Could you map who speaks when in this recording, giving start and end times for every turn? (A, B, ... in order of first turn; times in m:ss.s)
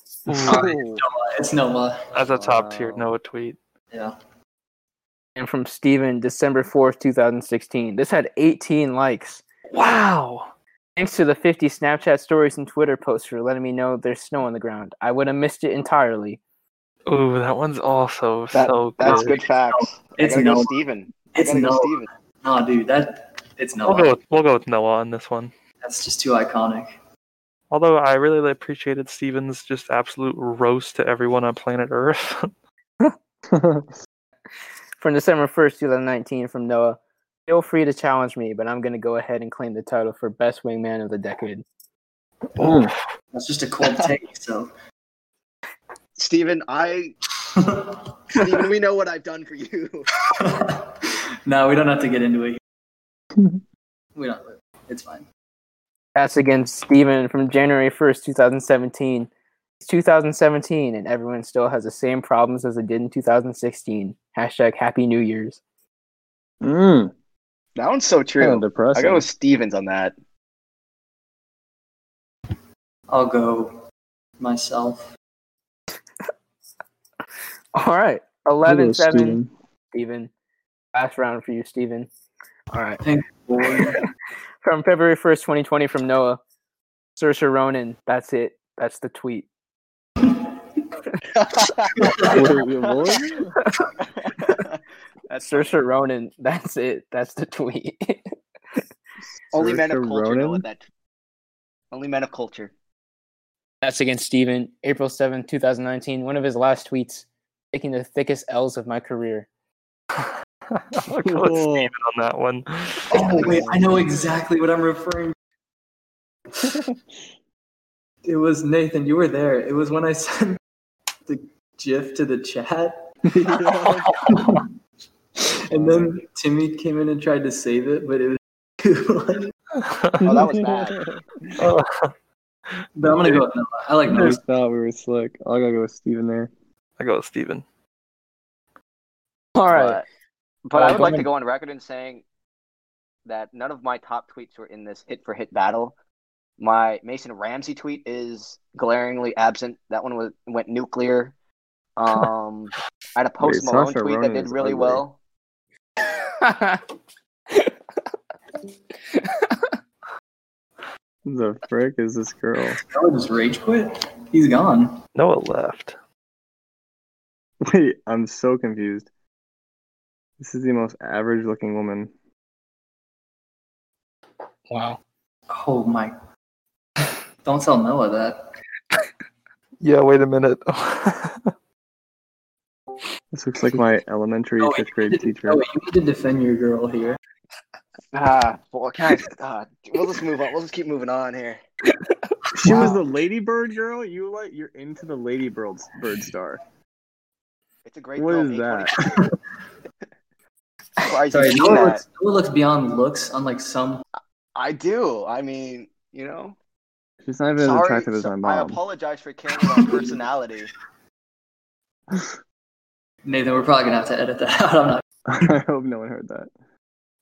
0:00.3-0:00.8 A
0:00.4-0:02.1 B
0:00.5-0:01.0 C
0:02.1-0:03.6 A
0:02.4-0:03.1 D
0:05.4-0:09.4 E
0:09.7-0:10.5 A
0:11.0-0:16.4 E
0:17.1-0:19.4 A
0:18.5-0:22.1 C
0:19.0-0:20.7 B
0:21.3-0:24.2 B
0:23.8-0:25.5 A
0:25.8-0:26.9 B
0:27.7-0:32.5 A
0:33.5-0:33.9 D
0:35.0-0:41.6 E
0:42.6-0:42.9 D
0:42.6-0:42.9 A
0:43.3-0:44.7 B
0:43.8-0:44.1 C
0:46.2-0:47.1 C
0:47.5-0:48.1 B
0:48.3-0:50.1 C
0:50.3-0:52.6 B
0:54.2-0:55.2 B
0:56.1-0:59.3 E
0:59.8-1:05.6 E
1:06.6-1:07.1 D
1:07.8-1:10.1 C
1:08.4-1:09.2 D
1:13.1-1:13.8 B
1:14.4-1:15.1 B
1:17.7-1:19.4 E
1:18.6-1:19.5 D
1:19.9-1:20.3 E
1:20.9-1:22.1 E
1:22.7-1:23.0 E
1:23.0-1:24.0 B
1:23.8-1:24.1 E
1:24.6-1:26.4 E
1:27.2-1:29.5 E
1:31.3-1:33.2 C
1:32.0-1:32.4 B
1:32.3-1:33.6 D
1:34.0-1:35.7 C
1:35.4-1:38.8 E
1:39.5-1:40.6 D
1:39.5-1:40.8 C
1:41.9-1:42.7 C
1:43.8-1:49.5 E
1:50.2-1:53.4 A
1:51.2-1:51.9 D
1:53.1-1:54.1 D
1:53.1-1:55.3 B
1:58.2-2:00.6 B
2:01.2-2:03.0 B
2:03.2-2:04.2 D
2:03.7-2:04.7 B
2:05.4-2:09.5 B
2:05.7-2:06.2 D
2:09.8-2:10.2 A
2:10.2-2:11.7 D
2:10.2-2:11.1 C
2:11.6-2:12.1 A
2:13.0-2:14.4 B
2:14.0-2:16.5 D
2:17.0-2:17.6 A
2:19.6-2:20.0 E
2:19.7-2:20.0 C
2:20.7-2:22.2 C
2:20.7-2:21.3 E
2:23.2-2:25.9 C
2:26.6-2:31.3 C
2:32.0-2:35.2 C
2:33.4-2:35.0 D
2:36.0-2:36.8 E
2:39.1-2:39.7 E
2:41.2-2:42.8 D
2:42.8-2:45.0 B
2:45.2-2:46.0 A
2:47.6-2:49.1 D
2:50.4-2:52.1 D
2:54.7-2:55.0 E
2:55.5-2:56.1 B
2:57.4-2:58.5 B
2:59.8-3:01.5 A
3:03.3-3:05.6 D
3:04.6-3:07.2 B
3:08.1-3:11.6 C
3:12.1-3:12.9 E
3:12.6-3:13.0 B
3:12.6-3:16.6 D
3:17.8-3:19.2 C
3:18.2-3:19.0 D
3:19.0-3:19.3 B
3:21.0-3:22.0 C
3:21.3-3:24.0 B
3:24.6-3:26.6 C
3:27.2-3:28.8 D
3:27.6-3:30.7 C
3:29.8-3:30.1 B
3:33.2-3:35.0 B
3:35.3-3:36.5 D